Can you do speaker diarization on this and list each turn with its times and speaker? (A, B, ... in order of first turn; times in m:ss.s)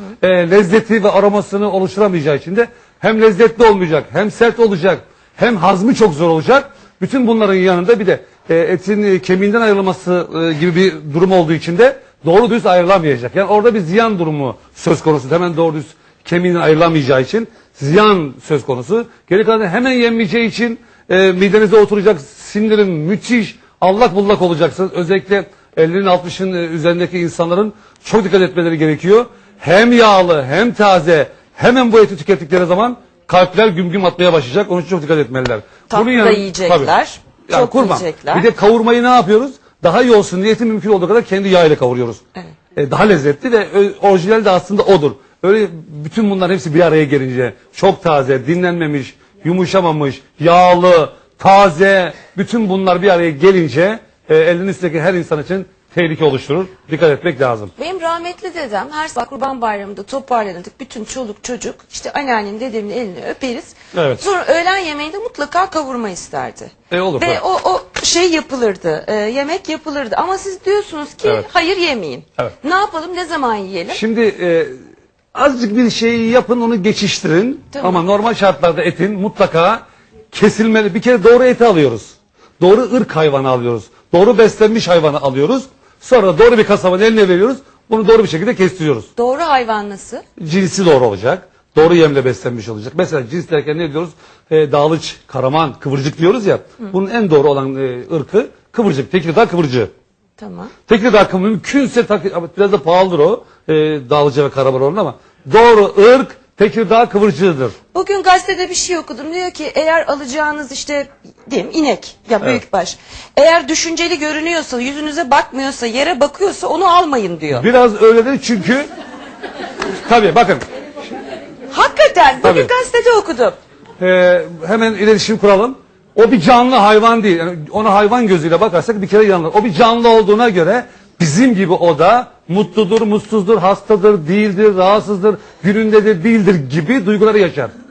0:00.2-0:36.9 A
0:35.9-0:38.5 B
0:37.5-0:42.2 A
0:42.7-0:57.7 A
0:57.8-1:14.0 B
1:03.9-1:04.2 A
1:06.9-1:07.4 A
1:13.9-1:14.7 A
1:15.3-1:29.1 A
1:17.7-1:18.0 B
1:29.1-1:30.2 B
1:30.4-1:39.9 A
1:40.4-1:40.7 B
1:40.9-1:47.7 A
1:47.9-1:57.7 B
1:57.5-1:58.8 A
2:00.0-2:00.6 A
2:01.7-2:03.6 B
2:02.4-2:02.7 A
2:04.0-2:17.7 A